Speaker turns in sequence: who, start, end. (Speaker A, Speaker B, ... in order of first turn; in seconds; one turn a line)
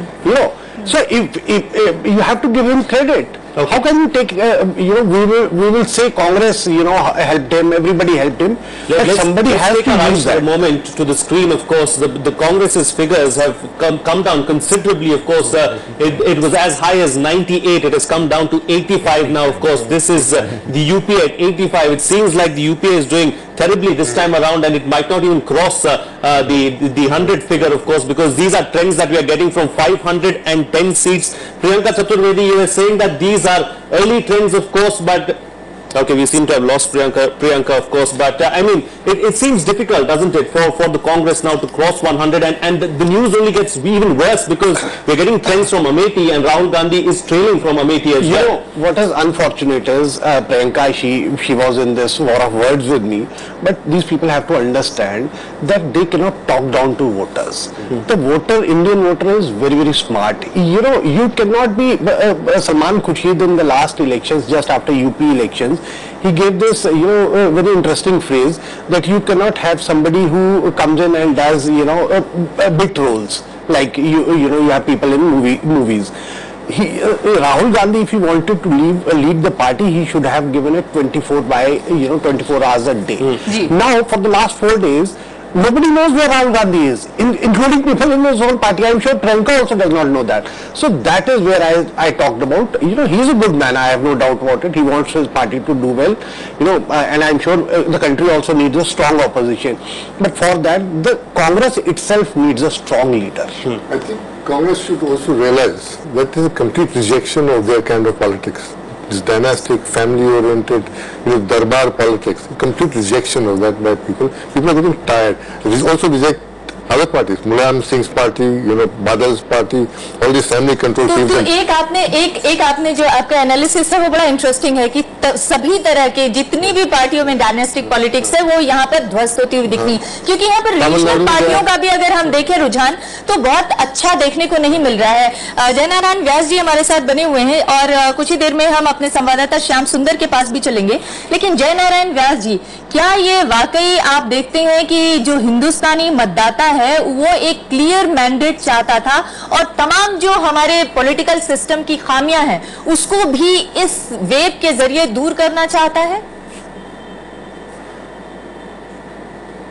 Speaker A: 0.2-10.5
Speaker B: 8.9-35.4
Speaker B: 35.9-48.5
Speaker A: 48.2-76.1
Speaker A: 76.7-103.6
Speaker C: 83.5-83.7
Speaker D: 103.9-121.5
Speaker C: 121.0-156.2
Speaker D: 130.8-131.6